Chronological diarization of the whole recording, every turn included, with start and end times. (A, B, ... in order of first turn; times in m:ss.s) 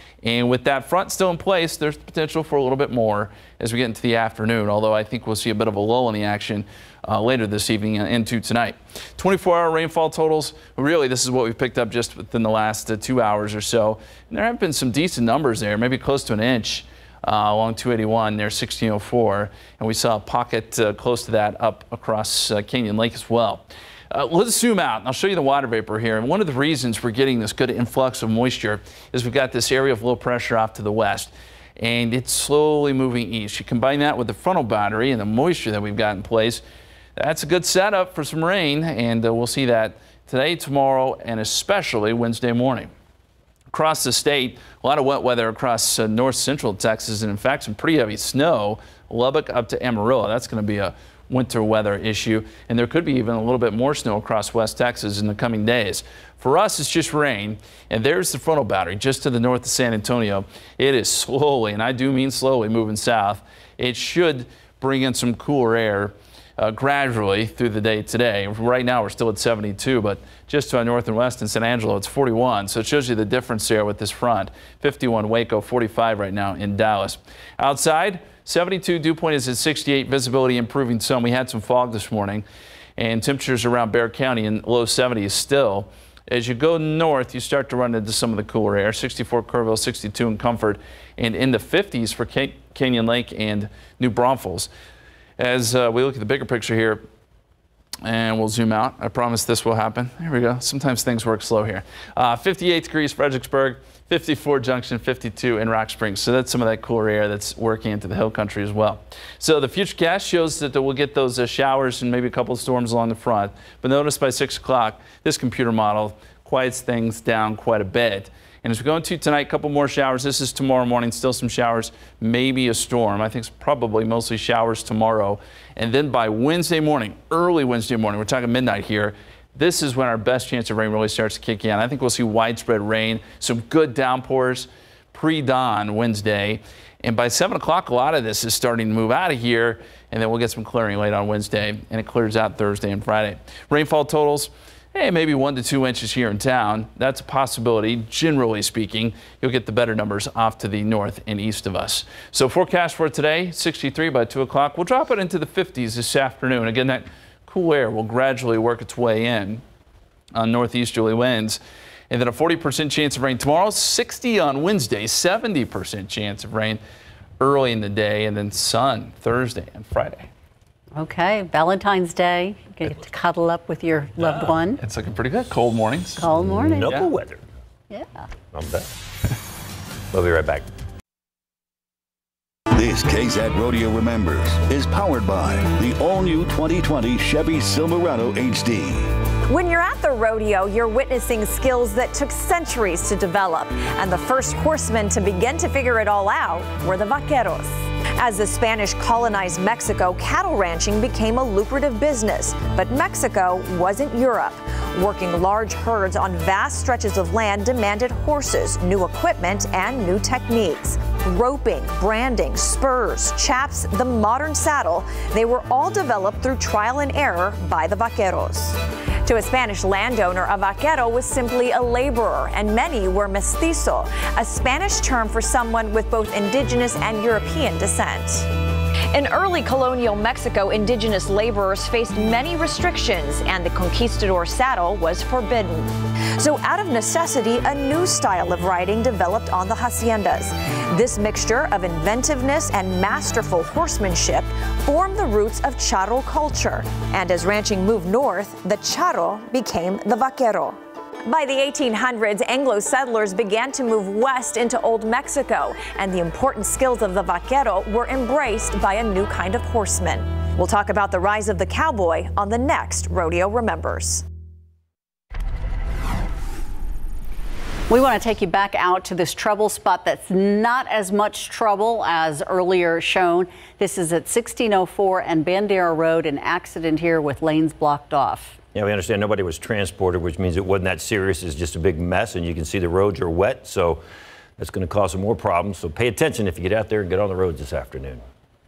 0:00.2-0:36.6 A
0:37.2-0:42.9 A
0:43.7-1:22.4 A
1:23.0-1:34.7 A
1:35.4-1:37.0 A
1:38.0-2:39.6 A
2:40.3-2:41.6 A
2:42.1-2:46.8 A
2:47.4-2:50.3 A
2:50.9-2:54.8 B
2:54.2-2:54.5 C
2:54.8-2:56.3 A
2:56.2-2:57.1 B
2:56.3-2:57.4 C
2:57.9-2:58.2 B
2:58.5-2:58.9 C
3:00.1-3:00.6 C
3:02.7-3:09.1 D
3:09.5-3:48.5 E
3:49.1-4:24.2 E
4:27.9-4:38.6 B
4:38.7-4:44.0 C
4:44.6-4:48.2 C